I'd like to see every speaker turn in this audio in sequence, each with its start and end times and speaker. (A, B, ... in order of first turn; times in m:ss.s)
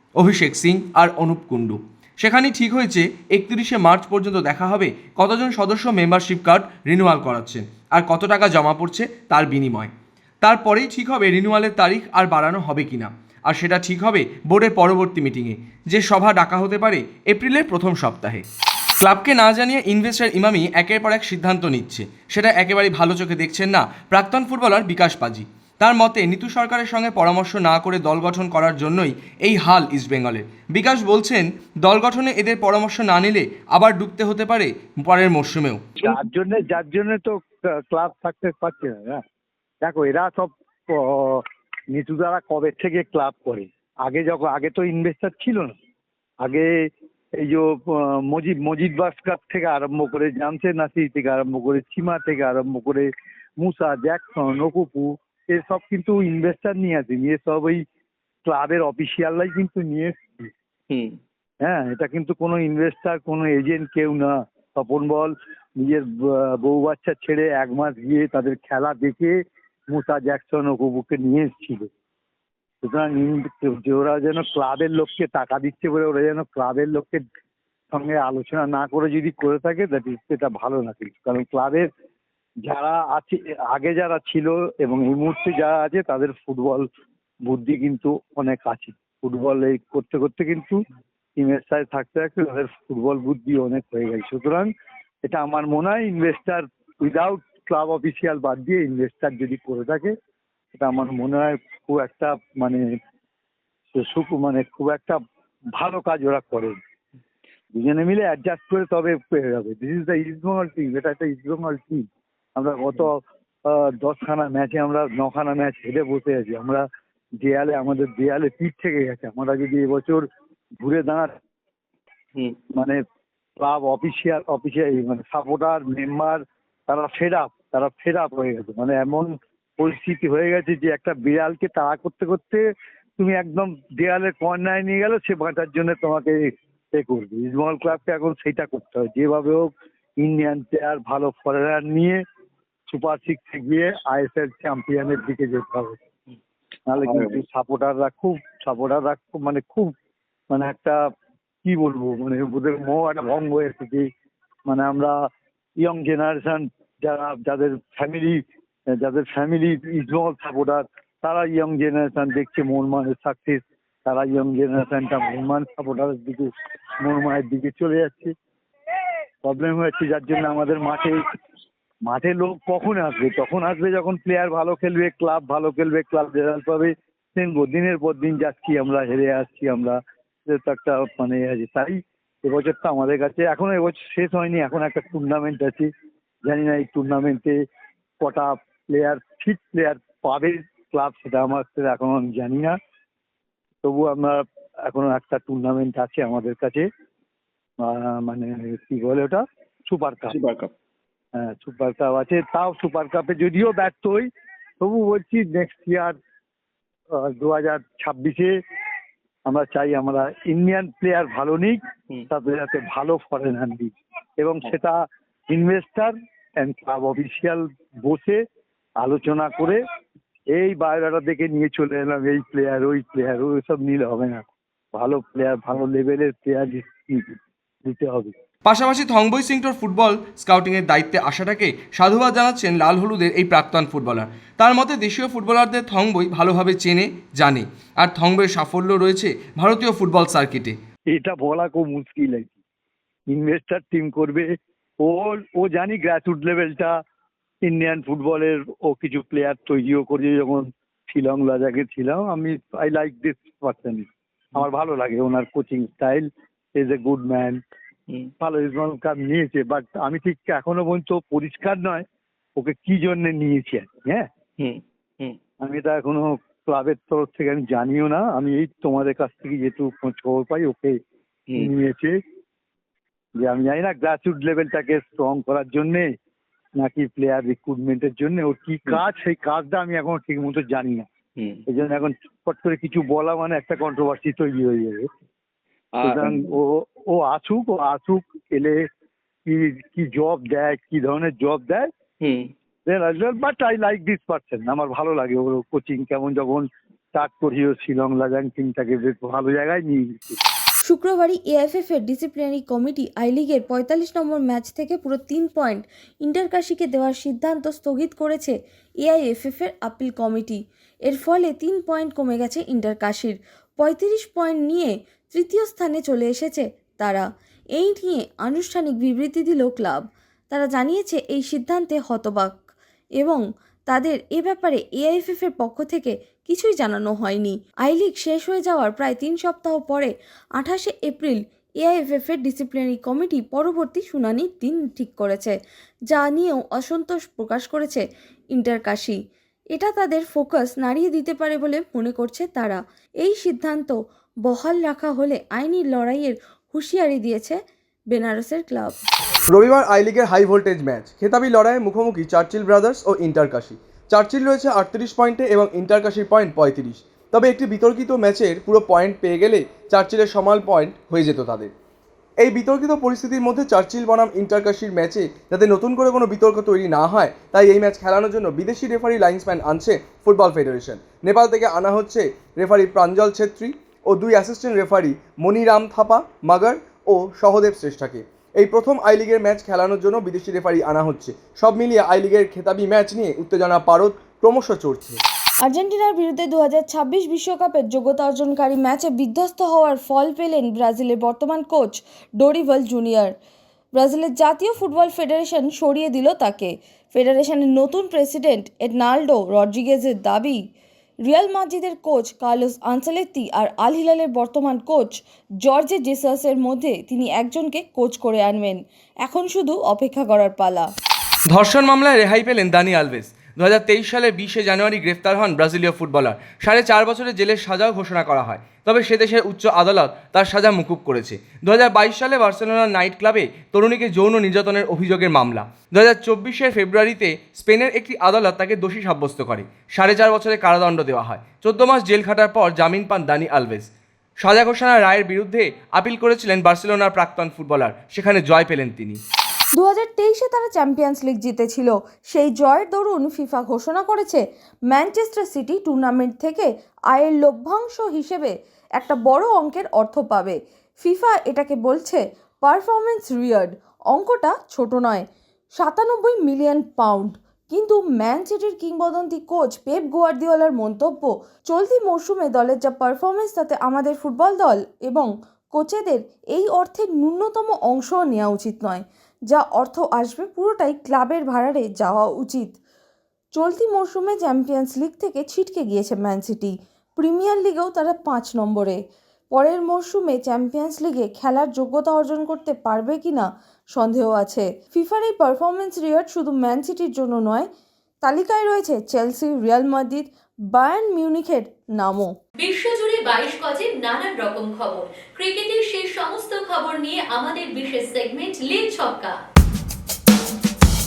0:00.2-0:18.4 A
0:19.0-0:35.8 A
0:36.0-0:39.2 B
0:39.8-0:45.7 B
0:46.4-0:57.8 B
0:58.4-1:00.5 B
1:00.9-1:01.2 C
1:01.6-1:09.4 B
1:09.9-1:11.9 B
1:12.8-1:17.2 B
1:17.9-1:21.9 B
1:22.6-1:26.8 B
1:27.4-1:30.8 B
1:31.4-1:34.7 B
1:35.2-1:40.1 B
1:40.7-1:42.8 B
1:43.9-1:45.2 B
1:45.7-1:46.8 B
1:47.8-1:52.0 B
1:52.6-1:56.8 B
1:57.4-2:00.2 B
2:00.8-2:01.3 B
2:02.7-2:03.0 B
2:03.6-2:12.7 B
2:13.2-2:19.7 B
2:20.2-2:22.2 B
2:22.9-2:26.0 B
2:26.9-2:29.9 B
2:27.0-2:27.4 C
2:30.5-2:31.0 B
2:31.6-2:34.1 B
2:34.6-2:35.1 B
2:35.8-2:38.4 B
2:39.0-2:46.5 B
2:47.0-2:48.3 B
2:49.4-2:51.2 B
2:52.0-3:05.9 B
3:06.4-3:07.5 B
3:08.2-3:12.8 B
3:13.8-3:16.9 B
3:17.8-3:20.4 B
3:20.3-3:20.7 C
3:21.4-3:24.3 B
3:24.8-3:26.2 B
3:27.1-3:28.5 B
3:29.5-3:31.8 B
3:32.3-3:38.4 B
3:39.0-3:39.8 B
3:40.5-3:48.3 B
3:48.6-4:00.8 A
4:01.1-4:02.6 B
4:03.3-4:04.5 B
4:05.0-4:06.9 B
4:07.6-4:14.0 B
4:14.6-4:17.6 B
4:18.4-4:22.0 B
4:22.6-4:24.2 B
4:24.6-4:25.4 C
4:25.6-4:31.0 B
4:31.6-4:32.2 B
4:33.4-4:36.1 B
4:36.8-4:41.0 B
4:41.4-4:41.6 C
4:41.7-4:45.0 B
4:45.9-4:46.5 C
4:46.0-4:48.8 B
4:49.4-4:51.9 B
4:52.2-4:52.5 C
4:52.8-5:00.4 B
5:00.8-5:17.2 D
5:17.8-5:22.5 D
5:23.2-5:35.5 D
5:36.1-5:38.0 D
5:38.5-5:39.2 D
5:39.8-5:47.6 D
5:48.1-5:49.0 D
5:49.5-6:01.7 A
6:02.4-6:25.2 A
6:25.6-6:33.3 D
6:34.0-6:40.6 D
6:41.3-6:50.9 D
6:51.5-7:13.9 A
7:14.4-7:19.2 A
7:19.7-7:35.2 D
7:35.8-7:52.7 D
7:53.5-7:59.0 D
7:59.5-8:07.7 D
8:08.2-8:12.3 D
8:12.6-8:19.3 E